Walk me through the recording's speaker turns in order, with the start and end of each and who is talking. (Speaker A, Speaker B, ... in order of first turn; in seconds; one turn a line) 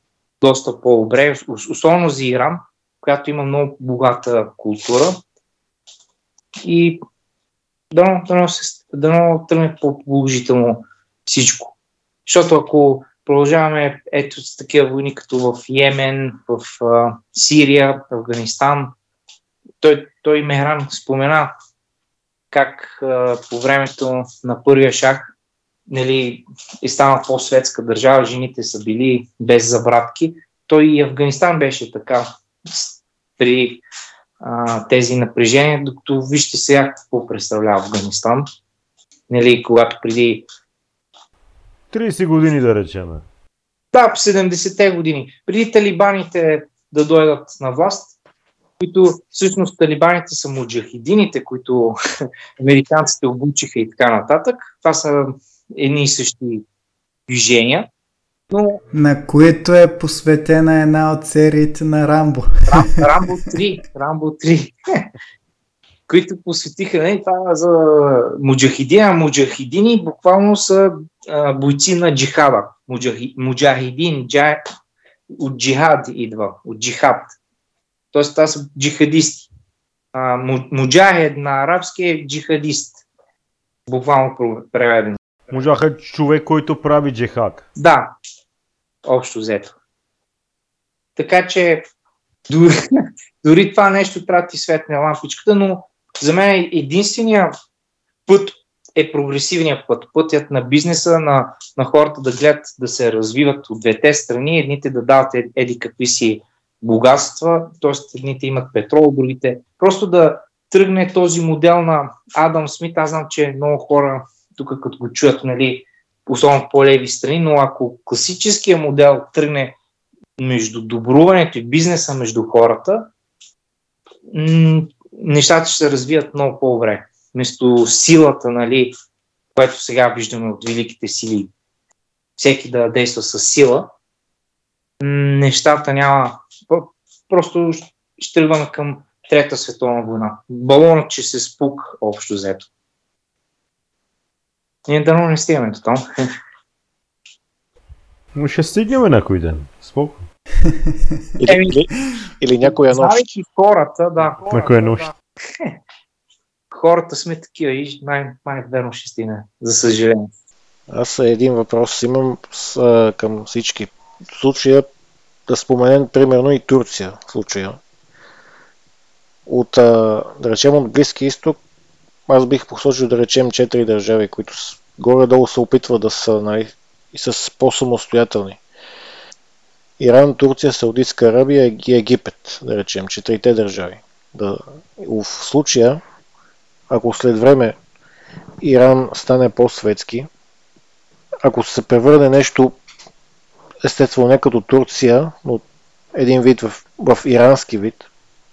Speaker A: 0.4-5.2
Speaker A: 6.7-7.0
Speaker A: 7.9-11.7
Speaker A: 12.3-18.9
Speaker A: 19.8-21.5
Speaker A: 22.5-25.3
Speaker A: 25.9-33.8
Speaker A: 34.4-38.5
Speaker A: 39.3-40.5
Speaker B: 41.9-43.2
Speaker A: 43.9-48.1
Speaker A: 48.8-52.0
Speaker A: 52.6-56.6
Speaker A: 57.3-57.9
Speaker A: 58.5-58.8
Speaker C: 58.9-63.3
Speaker A: 62.7-64.7
Speaker A: 66.1-74.6
Speaker A: 75.4-77.4
Speaker A: 78.1-79.5
Speaker A: 80.1-83.0
Speaker A: 83.9-85.2
Speaker B: 85.5-87.7
Speaker A: 87.8-88.2
Speaker A: 89.1-89.7
Speaker A: 91.2-91.9
Speaker A: 92.5-97.5
Speaker A: 98.3-119.8
Speaker A: 120.4-123.1
Speaker A: 124.3-128.9
Speaker A: 129.6-131.5
Speaker A: 132.4-133.9
Speaker A: 135.0-142.7
Speaker A: 144.9-146.0
Speaker B: 148.3-150.2
Speaker D: 151.4-153.2
Speaker A: 151.5-151.9
Speaker A: 152.6-155.7
Speaker B: 154.4-155.1
Speaker A: 156.7-160.3
Speaker D: 160.9-164.9
Speaker D: 165.5-167.8
Speaker D: 169.5-171.6
Speaker D: 172.3-178.6
Speaker D: 180.0-186.0
Speaker D: 186.9-187.8
Speaker D: 188.6-190.3
Speaker D: 191.4-192.8
Speaker D: 193.8-195.6
Speaker D: 196.2-198.1